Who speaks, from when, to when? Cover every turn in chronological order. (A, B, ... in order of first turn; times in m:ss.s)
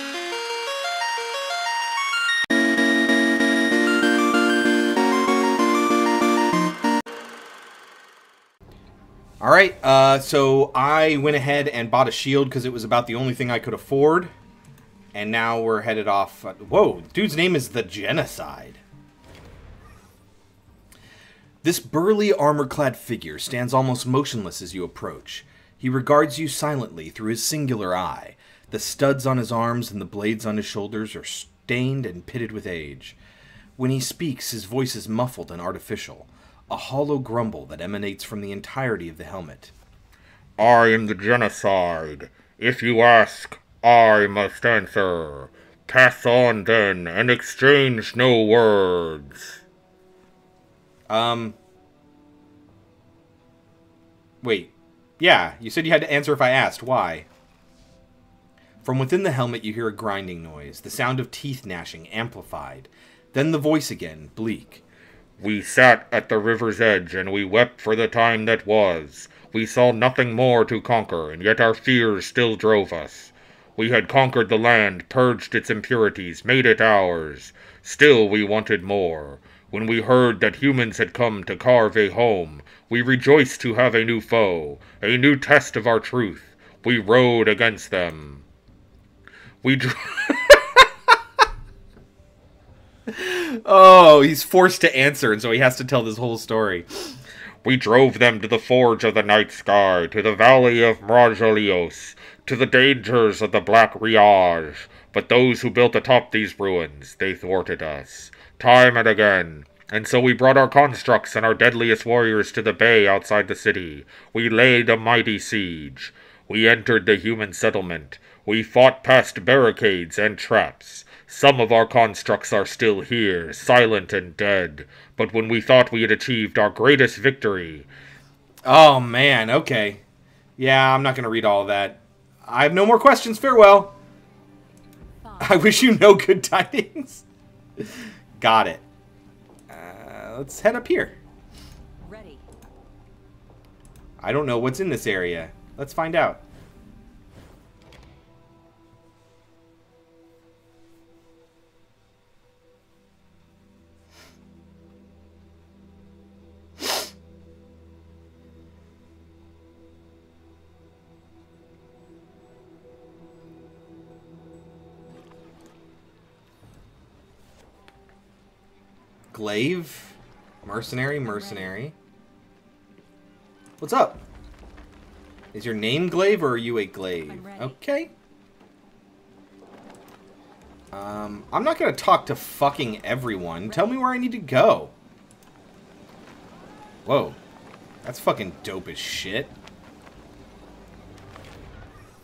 0:09.4-0:14.3 A
0:15.1-0:18.8 A
0:21.6-0:33.2 A
0:33.8-0:39.7 A
0:40.6-0:49.6 B
0:51.1-0:51.6 A
0:54.4-0:57.3 A
0:58.8-1:04.8 A
1:05.4-1:28.4 B
1:29.6-1:30.9 B
1:33.1-1:37.1 A
1:37.6-2:07.9 B
2:08.6-2:10.0 A
2:10.6-2:14.0 A
2:15.2-2:15.7 C
2:15.4-2:17.2 A
2:18.4-2:18.8 A
2:19.7-2:21.2 A
2:22.0-2:22.4 C
2:24.2-2:26.4 A
2:49.3-2:51.9 A
2:51.3-2:51.8 C
2:53.8-2:54.2 A
2:55.5-2:58.1 A
2:57.3-2:57.8 C
3:00.9-3:04.9 A
3:07.0-3:07.4 A
3:08.0-3:09.5 A